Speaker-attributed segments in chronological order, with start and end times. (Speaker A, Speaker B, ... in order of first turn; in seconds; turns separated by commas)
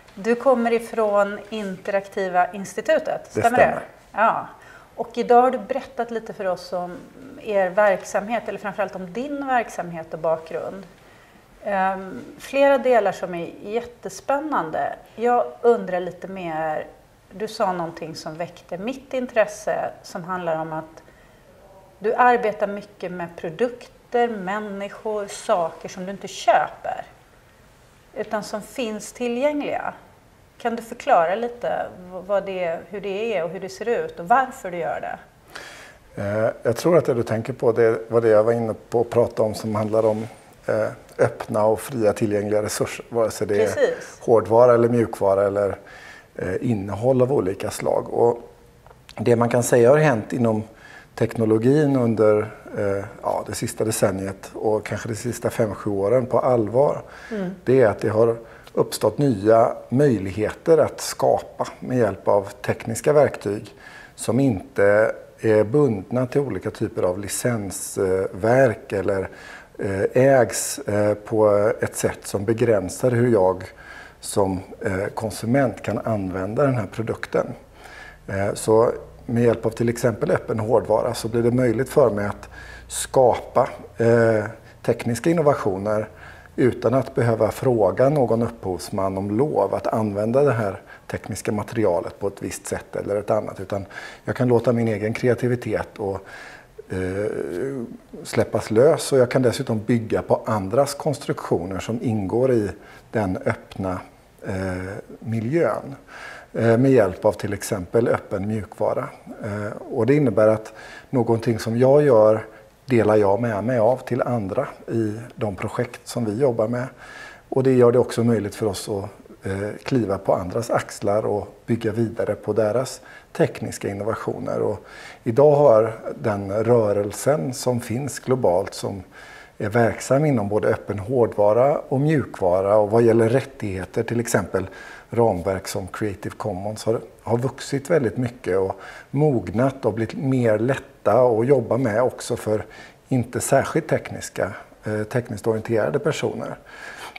Speaker A: 0.1-10.8, Speaker B: 3.4-3.8, Speaker A: 11.6-21.0, Speaker A: 22.0-27.1, Speaker A: 28.1-29.9, Speaker A: 30.6-35.2, Speaker B: 36.1-45.8, Speaker A: 43.5-44.2, Speaker B: 46.4-48.4, Speaker B: 49.2-57.0, Speaker B: 57.6-73.7, Speaker B: 74.2-77.5, Speaker B: 78.3-96.2, Speaker B: 96.9-106.0, Speaker B: 106.5-116.9, Speaker B: 117.5-129.0, Speaker B: 129.6-146.6